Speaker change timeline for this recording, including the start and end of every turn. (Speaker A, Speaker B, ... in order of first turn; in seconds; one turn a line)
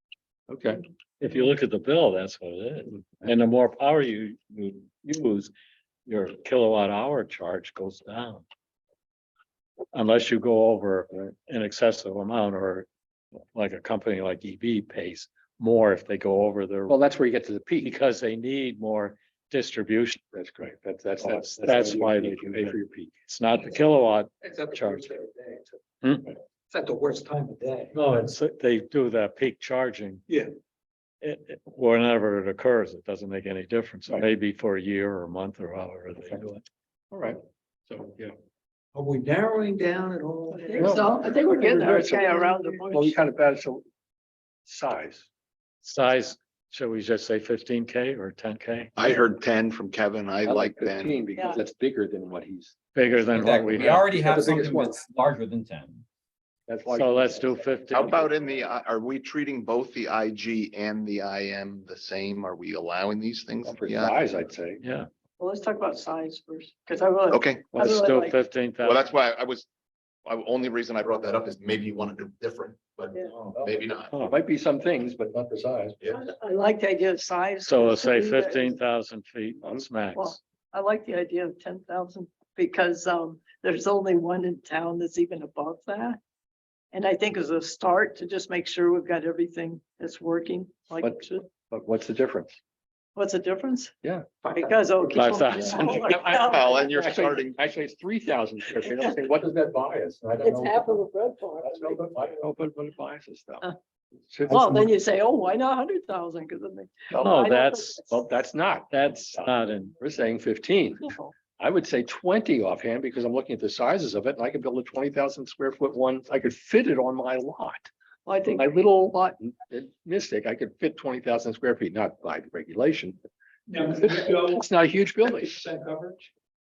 Speaker A: 0.5-0.8
Speaker B: 1.2-5.5
Speaker B: 6.1-8.4
Speaker B: 9.9-12.9
Speaker B: 13.5-16.9
Speaker A: 16.9-18.0
Speaker B: 17.8-20.2
Speaker A: 20.3-23.1
Speaker B: 21.2-25.1
Speaker C: 24.4-25.8
Speaker B: 26.0-26.3
Speaker C: 26.7-27.9
Speaker B: 27.9-30.2
Speaker B: 31.2-36.6
Speaker A: 37.1-38.3
Speaker C: 38.9-41.4
Speaker D: 40.5-43.2
Speaker A: 40.8-43.9
Speaker A: 44.6-45.3
Speaker B: 45.8-48.9
Speaker E: 49.0-51.2
Speaker A: 50.4-55.0
Speaker D: 51.4-51.6
Speaker B: 53.0-54.1
Speaker F: 53.4-56.0
Speaker A: 56.7-58.3
Speaker B: 56.9-58.3
Speaker E: 57.9-64.2
Speaker A: 63.6-64.8
Speaker B: 64.8-65.1
Speaker D: 65.4-68.4
Speaker E: 67.3-67.7
Speaker A: 67.7-68.1
Speaker B: 67.8-69.2
Speaker E: 68.8-69.7
Speaker E: 70.2-74.2
Speaker A: 73.3-76.1
Speaker D: 76.1-78.8
Speaker B: 77.6-80.4
Speaker A: 79.6-80.0
Speaker D: 80.2-86.2
Speaker D: 86.9-91.5
Speaker A: 91.0-92.6
Speaker D: 93.2-93.9
Speaker C: 94.4-95.1
Speaker D: 94.6-96.8
Speaker B: 95.1-96.2
Speaker A: 95.9-101.0
Speaker E: 96.2-97.6
Speaker D: 100.4-102.0
Speaker A: 101.6-103.7
Speaker A: 104.3-105.0
Speaker D: 104.5-108.0
Speaker A: 107.1-117.9
Speaker B: 107.2-108.0
Speaker B: 108.9-109.9
Speaker D: 111.0-111.3
Speaker D: 118.3-118.7
Speaker A: 118.4-123.2
Speaker C: 123.7-126.3
Speaker A: 123.8-125.6